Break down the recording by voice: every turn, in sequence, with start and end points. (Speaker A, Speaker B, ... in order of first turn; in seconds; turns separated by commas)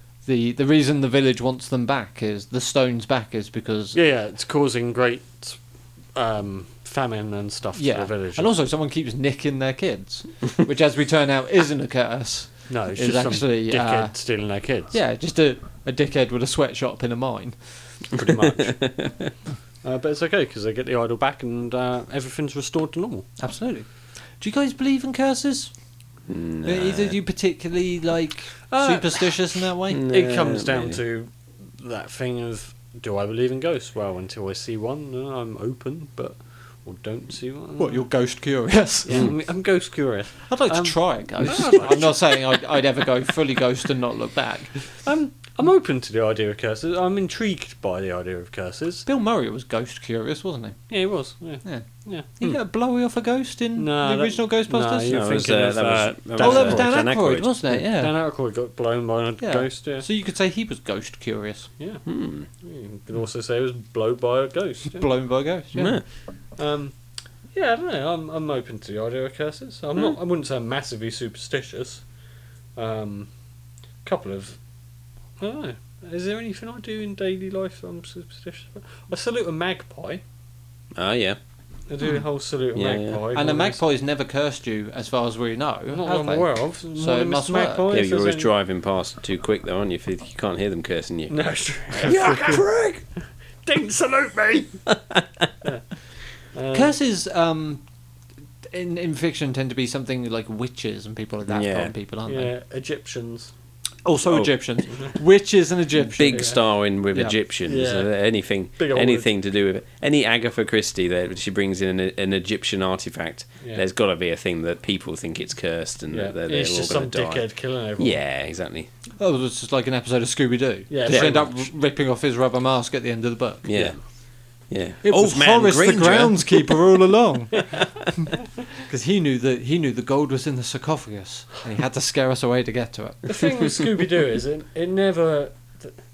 Speaker A: 0.2-4.0, Speaker B: 3.9-5.6, Speaker B: 6.1-8.5, Speaker A: 7.8-14.1, Speaker B: 12.7-14.9, Speaker A: 14.9-17.6, Speaker B: 18.1-18.8, Speaker C: 18.2-19.3, Speaker B: 19.8-23.3, Speaker A: 23.4-23.9, Speaker A: 24.4-25.7, Speaker C: 26.3-27.1, Speaker A: 26.6-30.1, Speaker B: 28.7-29.3, Speaker C: 29.9-31.0, Speaker B: 30.0-38.0, Speaker A: 37.8-39.3, Speaker B: 39.0-42.4, Speaker A: 40.5-44.7, Speaker B: 45.0-49.0, Speaker A: 49.0-50.8, Speaker B: 50.9-52.5, Speaker A: 52.4-55.2, Speaker B: 53.8-57.0, Speaker C: 55.1-57.5, Speaker A: 56.4-58.1, Speaker B: 57.7-60.0, Speaker A: 59.4-61.7, Speaker B: 61.8-65.1, Speaker C: 62.0-62.5, Speaker A: 64.9-66.0, Speaker C: 65.7-66.0, Speaker B: 66.5-66.9, Speaker B: 67.5-72.0, Speaker B: 72.8-73.3, Speaker B: 74.0-74.6, Speaker B: 75.4-80.2, Speaker C: 80.9-81.4, Speaker B: 81.9-83.8, Speaker C: 82.7-83.2, Speaker A: 83.3-87.9, Speaker B: 85.9-88.5, Speaker C: 87.9-93.0, Speaker B: 91.3-92.7, Speaker B: 93.6-94.8, Speaker B: 96.5-96.9, Speaker A: 96.7-97.8, Speaker A: 98.7-102.5, Speaker C: 101.5-101.9, Speaker B: 102.3-103.5, Speaker A: 104.0-106.6, Speaker C: 106.1-118.9, Speaker B: 106.3-106.6, Speaker B: 107.7-108.1, Speaker B: 108.8-109.3, Speaker B: 116.1-118.2, Speaker A: 119.2-123.7, Speaker B: 120.9-121.6, Speaker C: 121.1-121.4, Speaker C: 123.7-124.0, Speaker C: 124.7-126.8, Speaker A: 125.0-127.7, Speaker B: 127.6-127.8, Speaker A: 128.8-133.3, Speaker B: 133.2-135.9